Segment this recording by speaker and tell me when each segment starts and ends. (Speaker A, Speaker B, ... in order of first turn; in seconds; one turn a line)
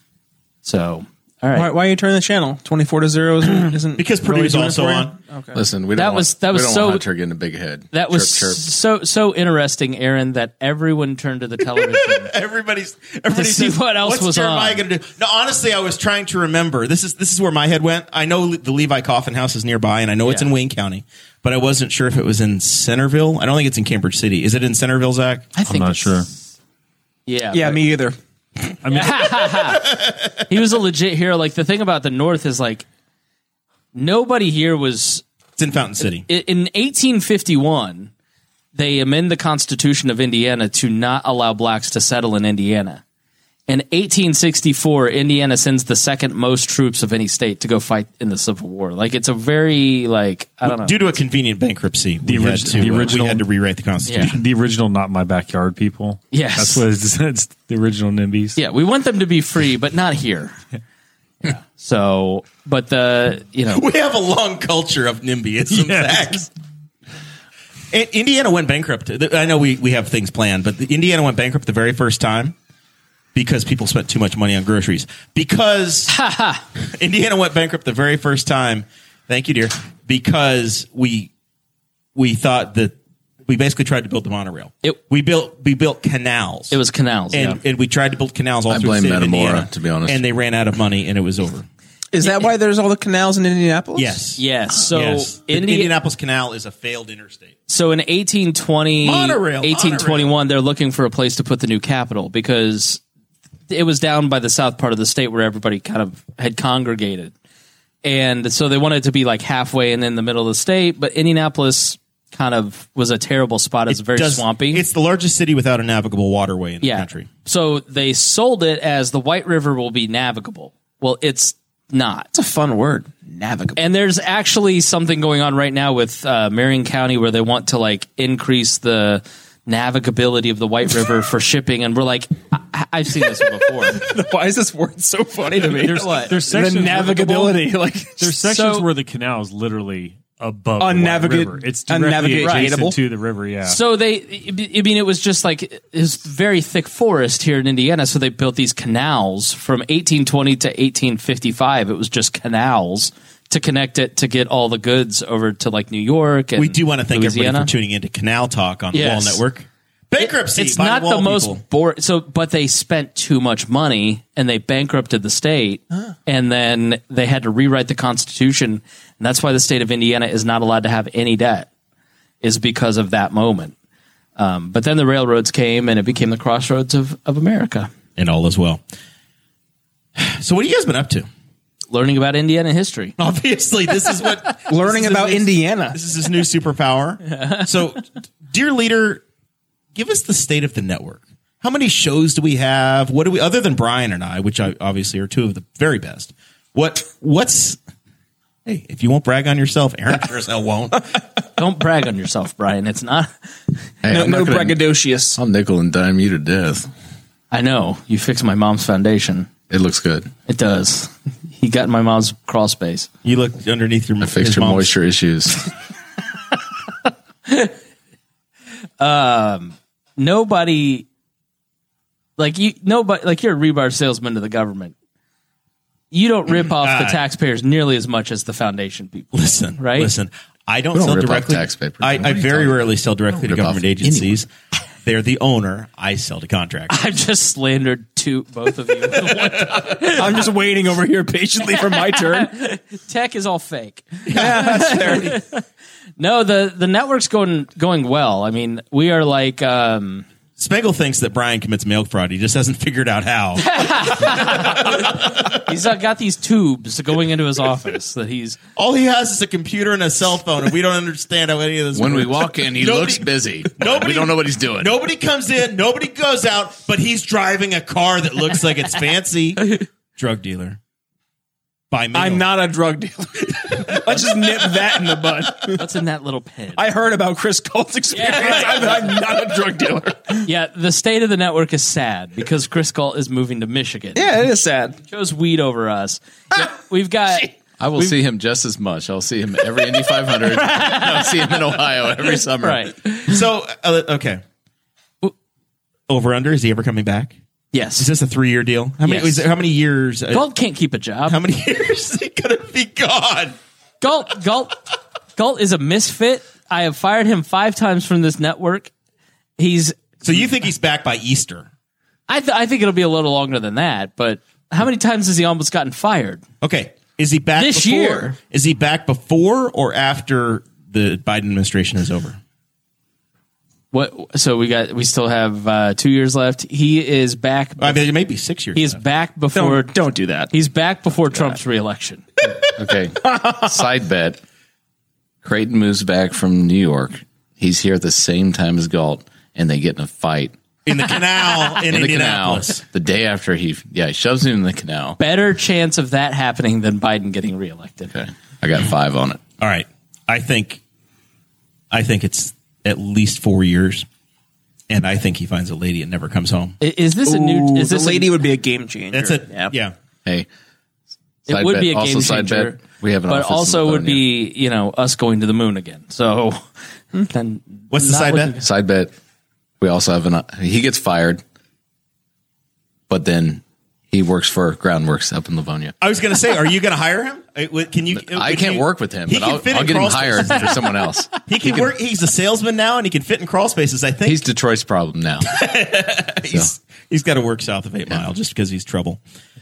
Speaker A: 0.6-1.7
Speaker B: 1.5-5.6
Speaker C: 4.0-5.1
Speaker D: 5.5-8.6
Speaker A: 6.0-7.0
Speaker A: 7.9-12.3
Speaker C: 12.2-25.5
Speaker A: 13.3-14.8
Speaker A: 20.2-20.5
Speaker A: 25.5-26.2
Speaker E: 25.6-26.3
Speaker A: 27.3-27.8
Speaker B: 27.5-28.1
Speaker E: 28.8-29.5
Speaker A: 28.9-30.0
Speaker A: 30.5-32.9
Speaker A: 33.9-35.2
Speaker C: 35.6-36.2
Speaker A: 36.0-38.1
Speaker A: 38.7-43.0
Speaker A: 43.7-51.0
Speaker C: 50.6-54.4
Speaker E: 52.2-53.4
Speaker A: 54.0-54.3
Speaker E: 54.1-58.6
Speaker A: 56.3-56.8
Speaker A: 58.6-60.5
Speaker A: 61.4-63.8
Speaker C: 63.7-66.5
Speaker E: 65.7-66.3
Speaker C: 67.9-72.5
Speaker C: 73.3-76.1
Speaker A: 76.1-76.6
Speaker C: 76.9-81.3
Speaker C: 82.1-82.9
Speaker C: 83.5-86.8
Speaker A: 86.7-87.6
Speaker C: 87.3-91.7
Speaker D: 88.7-90.2
Speaker B: 92.1-94.2
Speaker C: 93.9-97.5
Speaker A: 94.3-95.9
Speaker A: 97.7-103.0
Speaker C: 99.0-100.3
Speaker A: 103.7-107.3
Speaker A: 108.0-114.8
Speaker C: 113.9-117.3
Speaker A: 116.8-122.3
Speaker B: 122.3-123.8
Speaker A: 123.8-134.0
Speaker B: 133.9-138.3
Speaker E: 135.8-137.6
Speaker A: 135.8-136.3
Speaker E: 138.2-143.8
Speaker A: 138.4-138.9
Speaker B: 140.8-143.0
Speaker A: 142.4-142.7
Speaker A: 143.6-157.7
Speaker C: 156.6-161.6
Speaker A: 158.9-159.4
Speaker A: 160.2-171.7
Speaker A: 172.4-173.7
Speaker A: 174.4-177.9
Speaker C: 178.2-178.8
Speaker C: 180.2-181.3
Speaker A: 181.9-183.1
Speaker C: 183.2-189.2
Speaker B: 184.7-186.0
Speaker A: 187.3-187.7
Speaker C: 189.9-197.8
Speaker C: 198.7-201.1
Speaker A: 201.6-203.3
Speaker D: 204.0-204.8
Speaker B: 204.1-205.4
Speaker D: 205.3-206.9
Speaker A: 207.5-209.5
Speaker D: 209.7-210.3
Speaker A: 210.5-213.1
Speaker C: 213.2-214.9
Speaker D: 214.2-215.6
Speaker A: 217.5-217.7
Speaker A: 219.0-221.1
Speaker A: 222.4-224.9
Speaker A: 226.1-230.1
Speaker C: 226.7-227.2
Speaker C: 229.3-234.5
Speaker D: 230.9-234.4
Speaker C: 235.0-237.0
Speaker A: 236.9-240.4
Speaker C: 239.2-239.9
Speaker B: 240.2-242.5
Speaker A: 241.7-245.6
Speaker C: 244.3-244.7
Speaker B: 244.3-245.4
Speaker A: 246.2-250.2
Speaker C: 250.6-255.6
Speaker A: 253.6-258.6
Speaker C: 258.8-270.8
Speaker D: 261.9-265.0
Speaker C: 271.9-272.5
Speaker B: 272.1-275.8
Speaker C: 273.7-274.4
Speaker A: 275.7-276.9
Speaker B: 276.8-280.5
Speaker A: 278.1-279.1
Speaker A: 280.4-284.4
Speaker B: 284.1-285.0
Speaker A: 284.9-288.1
Speaker D: 287.8-292.9
Speaker A: 290.4-291.8
Speaker A: 292.6-293.4
Speaker C: 293.3-294.4
Speaker C: 296.1-297.4
Speaker A: 297.7-298.1
Speaker C: 298.0-300.4
Speaker A: 299.0-299.4
Speaker A: 300.3-301.4
Speaker C: 301.3-303.6
Speaker A: 304.0-304.8
Speaker A: 305.4-308.9
Speaker A: 309.6-310.2
Speaker C: 310.2-311.7
Speaker A: 312.3-316.4
Speaker C: 316.6-322.4
Speaker A: 317.6-318.3
Speaker A: 323.9-328.0
Speaker C: 327.8-329.0
Speaker A: 328.7-329.9
Speaker B: 329.5-330.5
Speaker A: 330.5-332.2
Speaker D: 332.8-334.4
Speaker B: 333.3-333.7
Speaker D: 335.4-340.5
Speaker C: 340.9-342.8
Speaker D: 341.8-345.2
Speaker A: 345.2-348.1
Speaker D: 348.1-349.4
Speaker C: 349.6-350.8
Speaker C: 351.9-354.1
Speaker C: 354.9-356.8
Speaker A: 356.8-358.3
Speaker B: 357.2-359.7
Speaker C: 359.1-359.9
Speaker A: 361.5-366.6
Speaker D: 361.5-364.2
Speaker A: 367.1-368.6
Speaker C: 367.9-368.5
Speaker D: 368.6-369.1
Speaker D: 369.8-371.4
Speaker D: 373.1-375.9
Speaker C: 376.0-380.9
Speaker D: 378.1-381.9
Speaker C: 381.4-384.4
Speaker D: 384.2-385.5
Speaker C: 385.5-389.2